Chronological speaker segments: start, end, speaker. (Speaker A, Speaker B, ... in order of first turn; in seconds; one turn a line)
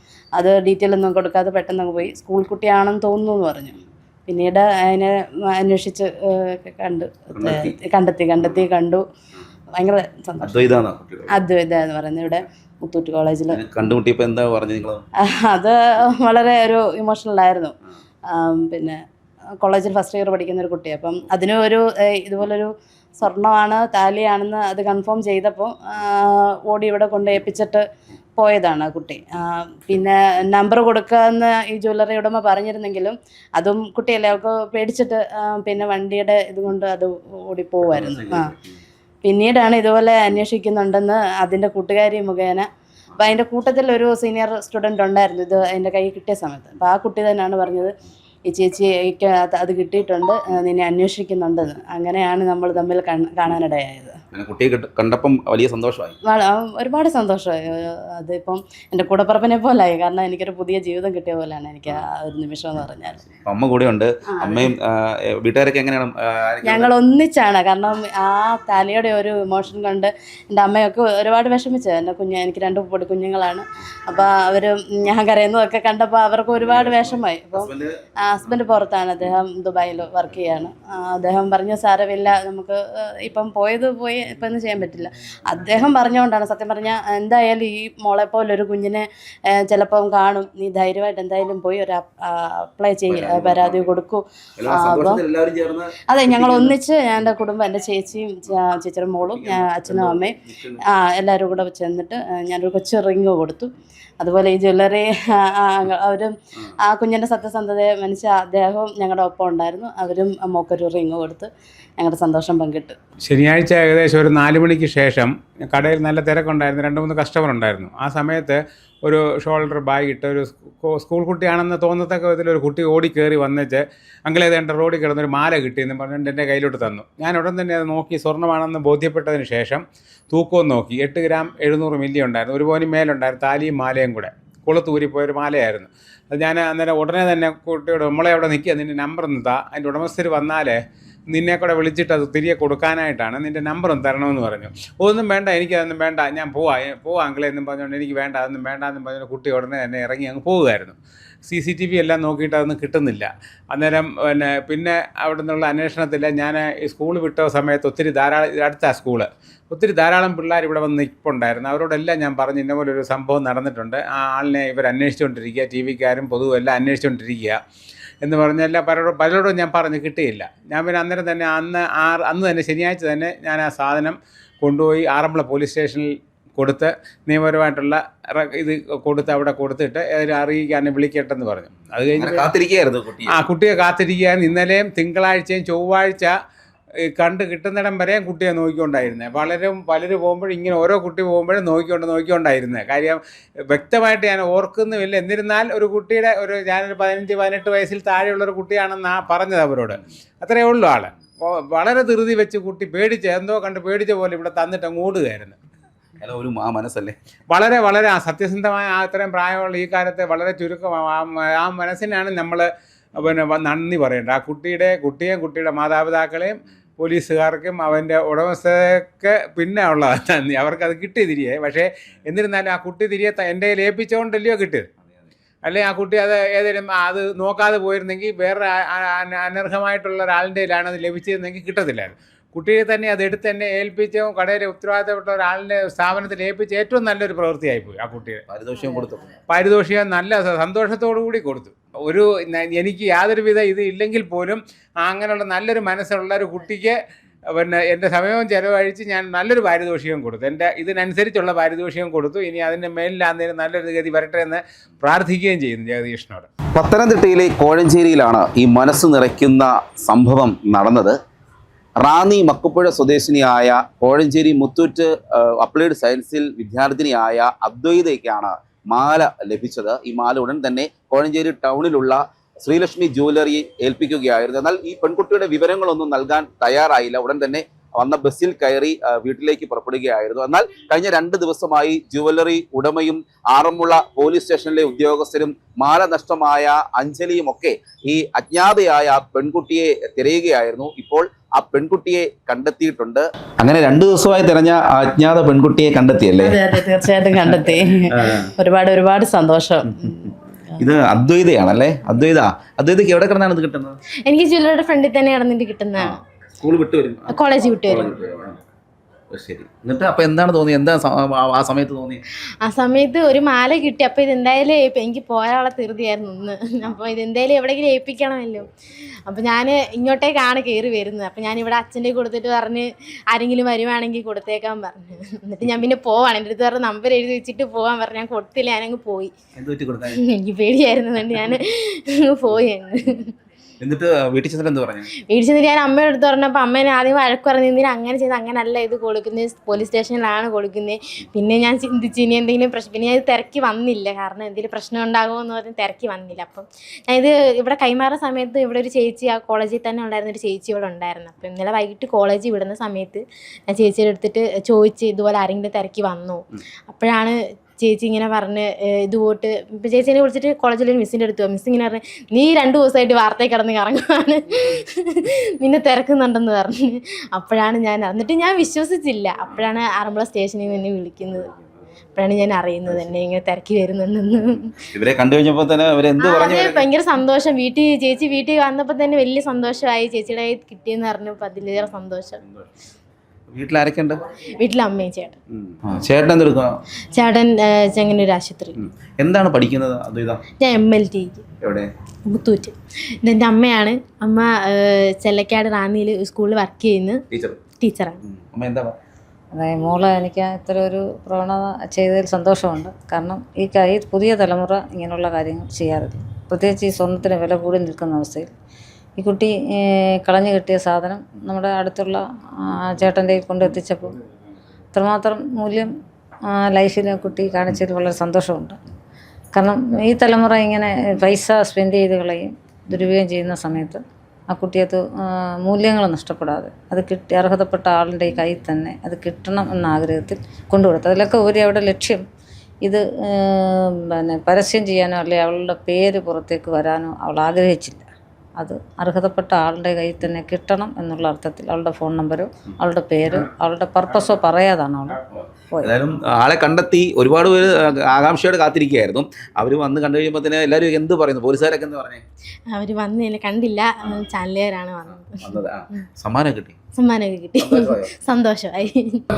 Speaker A: 0.4-9.0
Speaker B: 7.3-7.8
Speaker A: 9.8-10.7
Speaker B: 10.4-11.3
Speaker A: 11.3-13.6
Speaker B: 13.5-15.0
Speaker A: 15.2-17.7
Speaker A: 18.3-19.0
Speaker A: 19.6-27.9
Speaker A: 28.4-38.5
Speaker B: 37.9-38.8
Speaker A: 39.2-42.7
Speaker A: 43.2-47.9
Speaker A: 48.5-54.2
Speaker B: 54.3-56.2
Speaker A: 56.2-63.2
Speaker B: 63.4-66.9
Speaker A: 64.4-64.7
Speaker A: 66.7-77.7
Speaker B: 76.9-77.9
Speaker A: 78.3-95.2
Speaker B: 93.1-93.9
Speaker B: 94.6-96.8
Speaker A: 96.1-106.3
Speaker B: 99.4-100.8
Speaker A: 106.8-113.0
Speaker C: 113.2-167.6
Speaker C: 168.2-182.5
Speaker B: 182.2-183.4
Speaker C: 183.3-186.3
Speaker C: 187.2-205.6
Speaker B: 206.2-207.2
Speaker C: 207.5-224.9
Speaker C: 225.6-238.4
Speaker B: 238.5-239.3
Speaker C: 239.5-247.0
Speaker C: 247.5-256.5
Speaker B: 256.8-261.1
Speaker B: 262.0-296.6
Speaker A: 296.4-300.8
Speaker B: 297.4-298.5
Speaker B: 300.8-304.0
Speaker D: 304.3-306.2
Speaker B: 306.0-308.6
Speaker D: 307.3-308.1
Speaker B: 309.3-312.2
Speaker D: 312.6-318.7
Speaker D: 319.3-329.3
Speaker B: 329.6-330.2
Speaker D: 330.1-333.3
Speaker B: 333.8-335.1
Speaker D: 335.3-371.5
Speaker D: 372.2-374.8
Speaker B: 374.9-376.9
Speaker D: 376.2-382.4
Speaker B: 383.5-384.2
Speaker D: 384.6-385.4
Speaker B: 385.7-386.7
Speaker D: 387.1-388.8
Speaker B: 388.8-390.4
Speaker D: 390.6-391.4
Speaker B: 391.6-391.9
Speaker D: 392.3-397.2
Speaker B: 397.3-397.6
Speaker D: 397.8-398.2
Speaker B: 398.2-398.9
Speaker E: 399.5-408.5
Speaker E: 409.2-414.2
Speaker E: 414.9-415.9
Speaker E: 416.5-418.8
Speaker E: 419.5-425.0
Speaker E: 425.6-432.2
Speaker E: 432.9-438.1
Speaker E: 438.6-445.9
Speaker B: 445.8-452.2
Speaker D: 452.7-455.6
Speaker B: 455.4-456.8
Speaker D: 457.0-459.2
Speaker B: 457.6-458.1